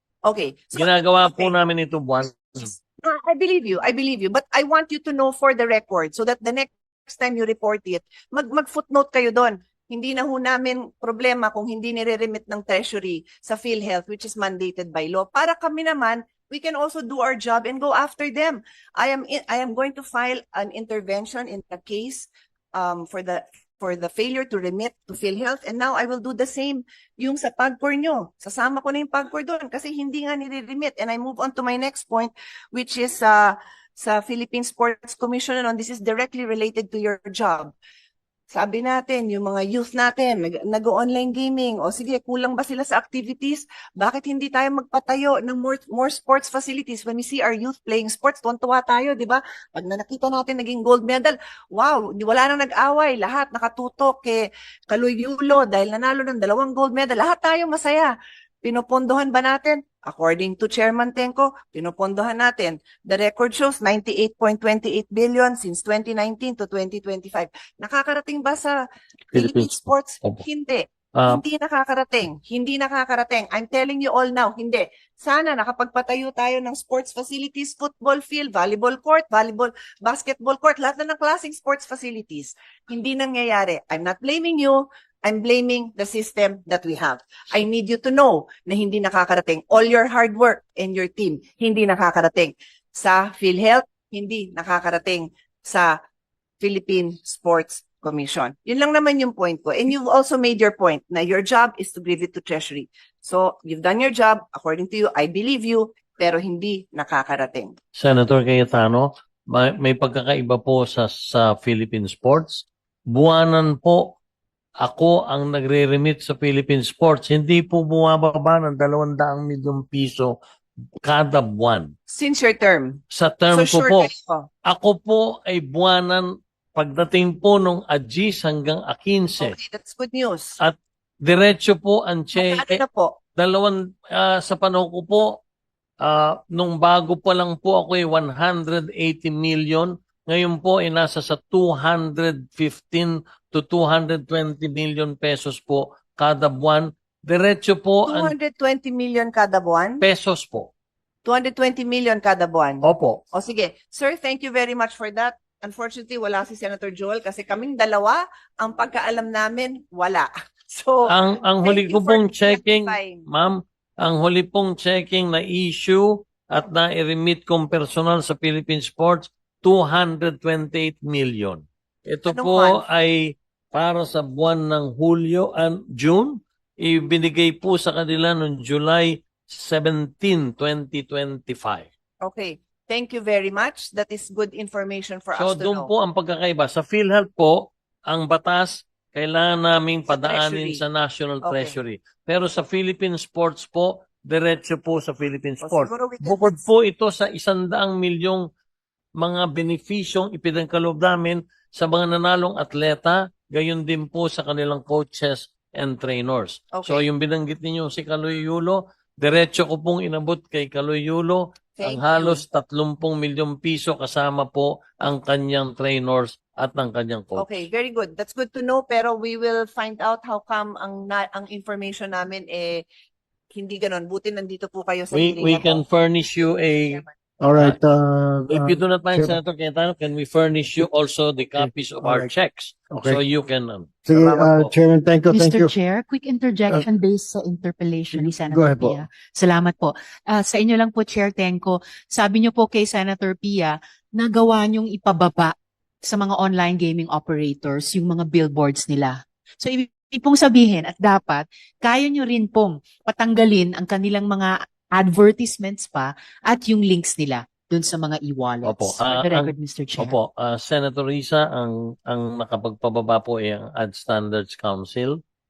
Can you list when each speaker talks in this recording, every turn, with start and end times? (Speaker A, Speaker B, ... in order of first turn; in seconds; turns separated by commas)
Speaker A: 0.2-1.5, Speaker B: 0.8-2.7, Speaker A: 3.0-37.7, Speaker A: 38.5-96.0, Speaker B: 69.3-70.4, Speaker A: 96.6-107.7, Speaker B: 108.0-114.2, Speaker B: 114.8-120.3, Speaker B: 121.0-121.9, Speaker A: 122.1-123.0, Speaker B: 123.1-124.1, Speaker A: 123.5-124.5, Speaker B: 124.7-129.6, Speaker A: 129.4-130.6, Speaker B: 130.6-132.8, Speaker A: 132.3-133.1, Speaker B: 133.4-135.3, Speaker B: 136.0-148.3, Speaker A: 148.1-150.0, Speaker B: 150.0-150.7, Speaker A: 151.2-161.1, Speaker B: 152.8-153.2, Speaker B: 161.1-181.9, Speaker A: 161.6-163.3, Speaker A: 172.3-172.8, Speaker A: 182.2-185.9, Speaker B: 185.3-198.4, Speaker A: 190.1-190.8, Speaker A: 191.4-191.8, Speaker A: 195.6-196.5, Speaker B: 199.2-217.5, Speaker A: 206.7-207.1, Speaker A: 211.8-212.4, Speaker A: 217.4-222.8, Speaker A: 223.5-225.8, Speaker B: 225.1-227.0, Speaker C: 227.4-229.4, Speaker B: 228.5-234.7, Speaker C: 231.6-232.3, Speaker C: 232.9-233.2, Speaker C: 234.1-235.7, Speaker D: 235.3-245.5, Speaker C: 238.1-239.0, Speaker D: 246.0-260.2, Speaker B: 258.6-265.2